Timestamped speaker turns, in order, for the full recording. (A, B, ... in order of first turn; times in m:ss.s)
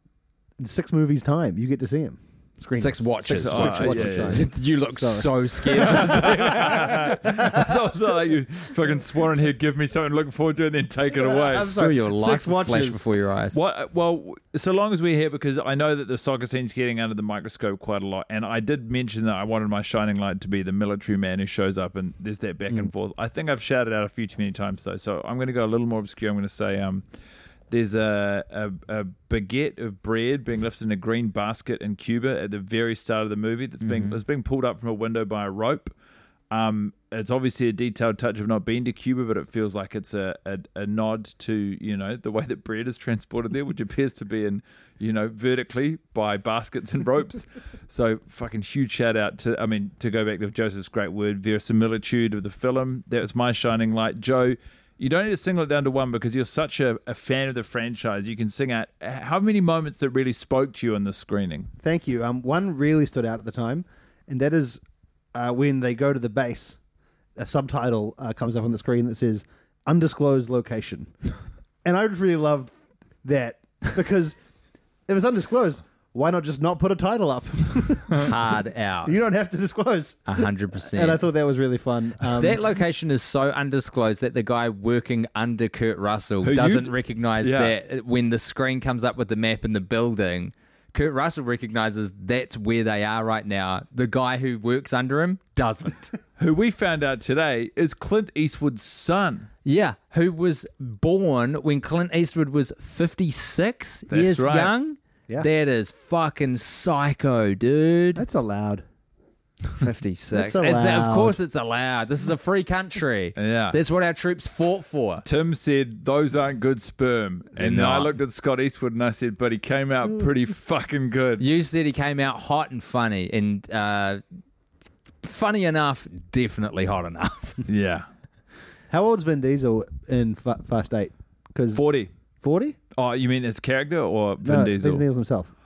0:00.6-0:07.7 A
0:02.8-0:07.2 B
0:03.3-0:04.5 C
0:05.7-0:11.8 C
0:11.1-0:13.0 A
0:11.6-0:13.6 B
0:13.5-0:27.0 C
0:27.7-0:35.9 C
0:33.8-0:34.2 B
0:36.5-1:01.7 C
1:01.8-1:04.8 A
1:05.3-1:06.8 A
1:07.4-1:11.1 A
1:11.8-1:12.7 A
1:13.2-1:14.4 A
1:15.1-1:18.3 A
1:18.1-1:19.2 B
1:19.0-1:22.6 A
1:20.3-1:21.2 B
1:22.3-1:36.1 B
1:26.4-1:27.8 C
1:36.4-1:39.5 C
1:39.6-1:48.2 B
1:44.1-1:44.7 C
1:48.1-1:48.8 A
1:49.8-1:55.2 B
1:50.3-1:51.4 A
1:53.4-1:53.8 C
1:55.2-2:01.4 C
1:57.6-1:58.1 B
2:01.4-2:04.2 B
2:05.2-2:07.6 B
2:07.7-2:08.1 C
2:08.9-2:11.8 A
2:11.7-2:12.1 C
2:12.4-2:12.8 A
2:13.0-2:15.0 C
2:14.4-2:15.5 A